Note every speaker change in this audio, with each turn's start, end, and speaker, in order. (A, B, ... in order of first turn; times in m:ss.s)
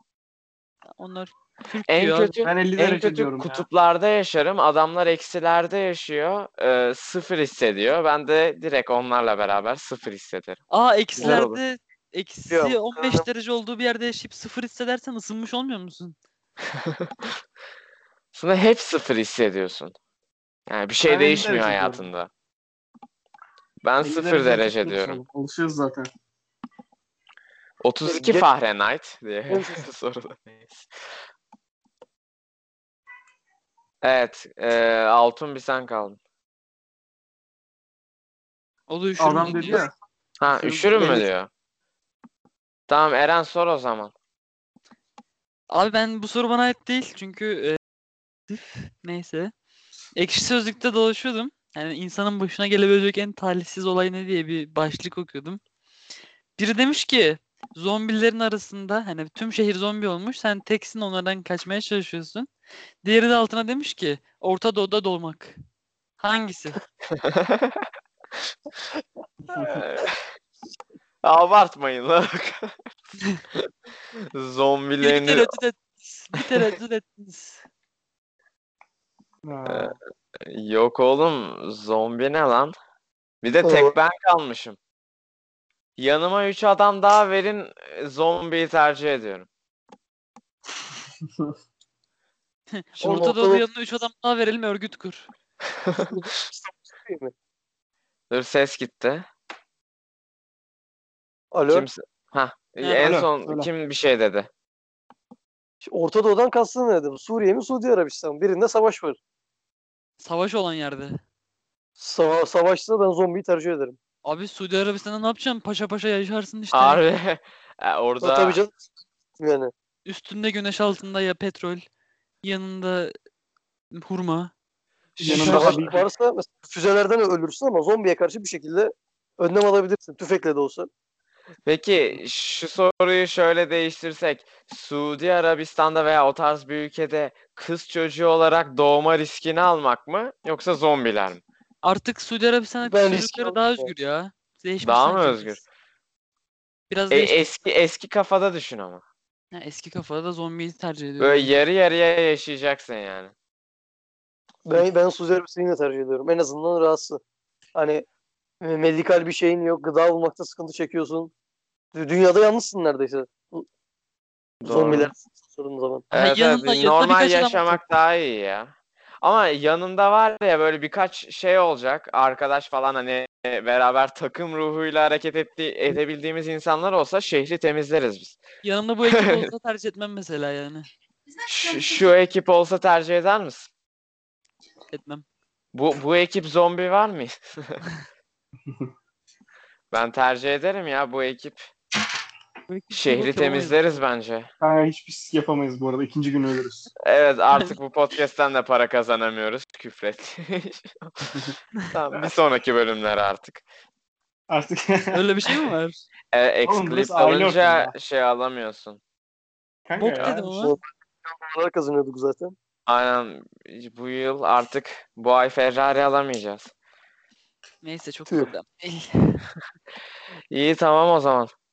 0:01.0-0:02.4 A
0:01.9-0:10.6 B
0:02.4-0:03.6 C
0:10.7-0:16.2 A
0:11.2-0:11.6 B
0:12.5-0:13.2 D
0:16.7-0:17.3 B
0:18.3-0:19.9 B
0:20.7-0:22.3 B
0:21.0-0:22.1 C
0:23.8-0:25.2 B
0:24.0-0:26.1 C
0:27.8-0:30.9 B
0:28.0-0:28.4 D
0:29.5-0:29.8 D
0:34.0-0:36.2 B
0:38.9-0:39.8 A
0:39.2-0:39.9 C
0:40.4-0:41.5 B
0:40.5-0:41.2 C
0:42.9-0:44.1 B
0:45.7-0:47.8 A
0:48.5-0:49.5 A
0:50.2-0:55.6 A
0:56.6-1:02.5 A
1:03.0-1:05.6 A
1:06.2-1:06.8 A
1:07.1-1:07.9 B
1:09.5-1:09.8 C
1:09.6-1:10.2 B
1:11.2-1:12.8 B
1:13.5-1:15.5 B
1:15.0-1:17.6 A
1:19.4-1:20.0 C
1:19.7-1:22.7 B
1:23.4-1:24.8 B
1:23.6-1:23.9 D
1:26.0-1:29.5 B
1:32.7-1:35.3 A
1:33.0-1:33.6 D
1:35.8-1:36.1 B
1:36.0-1:37.3 D
1:38.3-1:39.2 B
1:41.5-1:41.9 D
1:41.7-1:44.5 B
1:42.8-1:43.1 A
1:43.0-1:43.7 C
1:45.8-1:49.2 D
1:50.2-1:51.2 A
1:52.0-1:54.0 D
1:54.2-1:57.0 A
1:56.7-1:58.6 B
1:58.2-1:58.8 D
1:59.4-1:59.7 D
2:00.0-2:01.8 A
2:02.4-2:03.1 A
2:03.9-2:04.5 A
2:05.2-2:05.8 A
2:05.2-2:06.0 C
2:05.2-2:10.9 D
2:11.6-2:21.4 B
2:21.8-2:25.6 A
2:22.8-2:23.9 D
2:24.8-2:25.6 B
2:26.9-2:27.5 A
2:27.1-2:29.0 B
2:29.5-2:31.5 A
2:31.2-2:33.3 B
2:34.6-2:37.2 D
2:37.7-2:38.0 D
2:38.6-2:41.3 D
2:41.9-2:43.7 D
2:44.6-2:45.1 B
2:44.6-2:46.0 D
2:46.1-2:47.8 A
2:46.1-2:58.4 B
2:58.6-3:00.8 A
2:59.0-2:59.5 B
3:01.5-3:03.7 B
3:04.9-3:05.2 A
3:05.7-3:07.8 B
3:09.9-3:11.7 B
3:12.7-3:13.8 A
3:12.9-3:14.5 B
3:14.6-3:16.9 C
3:17.0-3:23.6 B
3:24.5-3:25.6 C
3:25.1-3:26.0 A
3:26.3-3:29.0 B
3:26.6-3:27.9 C
3:29.8-3:30.6 C
3:30.0-3:30.8 A
3:30.5-3:32.5 D
3:32.8-3:36.7 B
3:37.8-3:39.5 A
3:40.5-3:41.5 B